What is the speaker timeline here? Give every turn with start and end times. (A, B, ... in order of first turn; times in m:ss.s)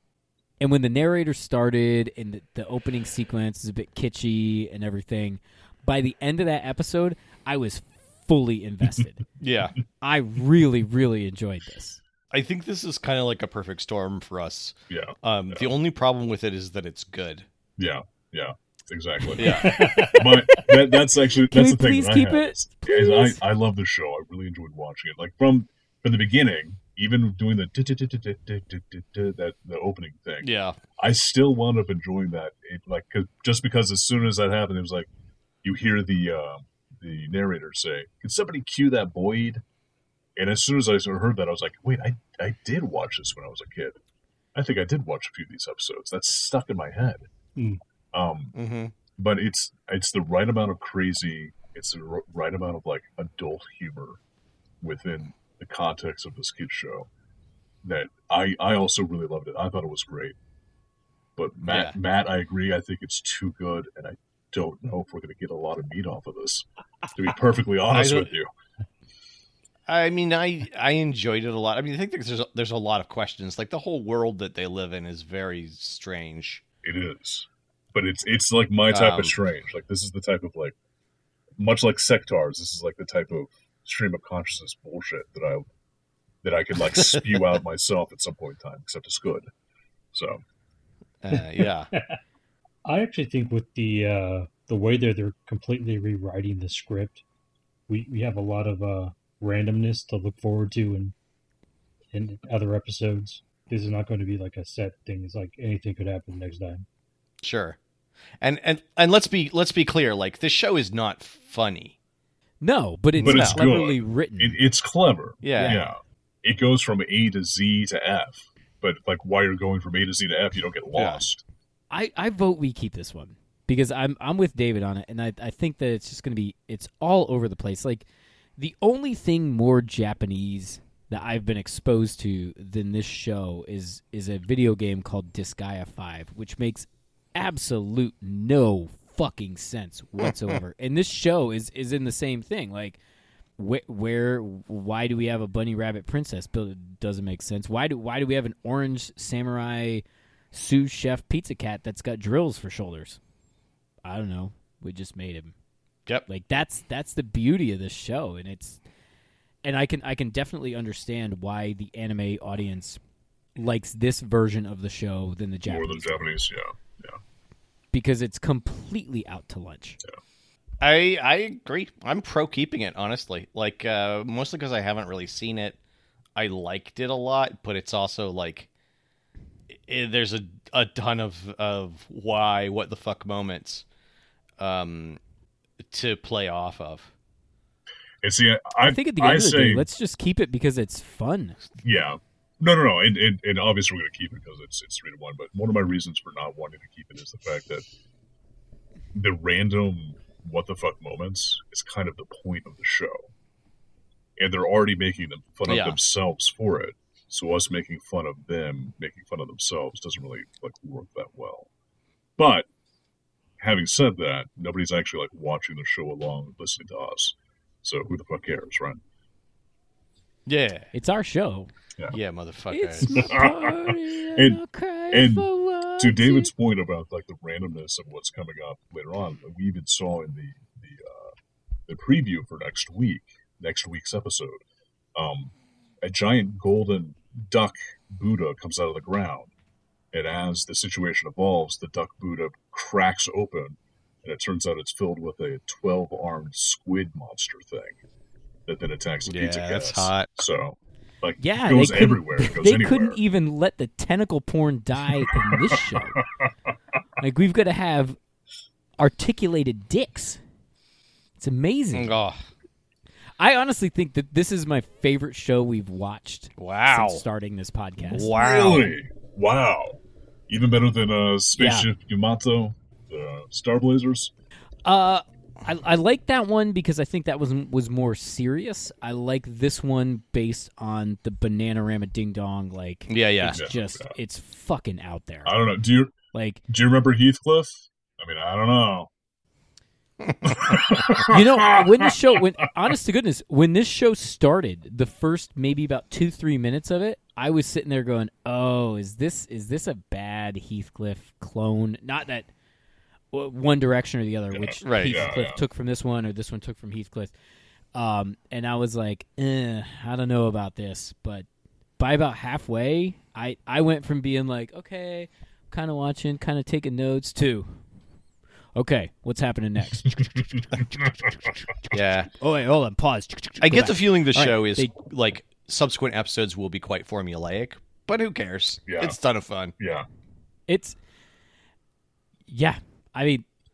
0:00.6-0:09.2 A
0:09.4-0:09.8 B
0:10.0-0:12.0 A
0:12.3-0:17.5 B
0:14.9-0:15.7 C
0:17.8-0:35.1 C
0:19.4-0:20.0 B
0:19.4-0:20.8 D
0:21.4-0:23.4 A
0:30.4-0:30.8 B
0:35.6-0:39.6 C
0:40.4-0:44.0 C
0:44.6-0:47.2 C
0:47.6-0:47.8 D
0:48.1-0:48.5 C
0:48.6-0:48.9 B
0:49.2-0:54.2 C
0:54.8-0:57.1 C
0:57.8-1:00.4 C
1:01.4-1:08.5 C
1:01.6-1:02.0 B
1:07.9-1:08.3 B
1:09.9-1:16.6 B
1:16.8-1:20.8 C
1:18.9-1:19.4 B
1:21.6-1:25.7 C
1:26.4-1:29.5 C
1:30.1-1:30.4 C
1:31.2-1:31.9 B
1:32.8-1:37.2 D
1:37.9-1:41.1 D
1:42.1-1:46.8 D
1:47.4-1:47.8 B
1:48.4-1:52.0 B
1:52.6-1:54.6 A
1:53.2-1:53.7 B
1:53.2-2:01.4 C
1:55.4-1:55.8 B
2:00.9-2:01.2 B
2:01.9-2:08.1 A
2:08.6-2:23.0 A
2:23.6-2:33.2 A
2:34.0-2:35.5 A
2:36.3-2:38.8 A
2:39.6-2:43.0 A
2:43.6-2:46.2 A
2:45.7-2:47.2 C
2:47.9-2:50.0 A
2:50.8-2:55.8 B
2:56.4-2:58.7 B
2:59.7-3:03.8 B
3:04.6-3:05.2 B
3:05.8-3:07.1 B
3:08.2-3:09.9 C
3:08.8-3:11.6 A
3:11.8-3:17.9 C
3:19.1-3:23.3 C
3:24.4-3:31.7 C
3:25.7-3:26.0 B
3:32.4-3:32.7 C
3:33.6-3:39.0 C
3:40.5-3:40.9 B
3:40.9-3:41.7 A
3:42.1-3:43.3 B
3:42.7-3:46.5 A
3:43.2-3:44.6 C
3:45.1-3:51.3 C
3:51.9-3:54.6 C
3:55.2-3:59.5 C
4:00.1-4:08.0 C
4:08.7-4:13.2 C
4:09.3-4:10.3 B
4:11.4-4:16.2 A
4:17.2-4:18.2 A
4:19.0-4:20.4 A
4:21.4-4:22.1 A
4:21.9-4:22.5 B
4:23.4-4:28.3 A
4:26.6-4:27.2 B
4:28.1-4:28.9 B
4:28.3-4:34.3 C
4:31.6-4:31.9 A
4:34.8-4:45.5 A
4:43.1-4:43.7 B
4:43.5-4:44.1 C
4:45.4-4:46.2 C
4:46.3-4:46.6 A
4:46.7-4:49.1 C
4:50.5-4:52.1 C
4:51.3-5:02.5 A
5:03.3-5:07.3 A
5:04.5-5:05.6 C
5:04.8-5:05.3 B
5:08.0-5:11.5 A
5:12.0-5:17.8 A
5:18.8-5:21.1 A
5:21.9-5:22.3 B
5:22.3-5:24.9 A
5:23.6-5:29.7 B
5:28.9-5:29.2 C
5:29.8-5:30.1 C
5:30.7-5:31.0 A
5:32.5-5:33.4 A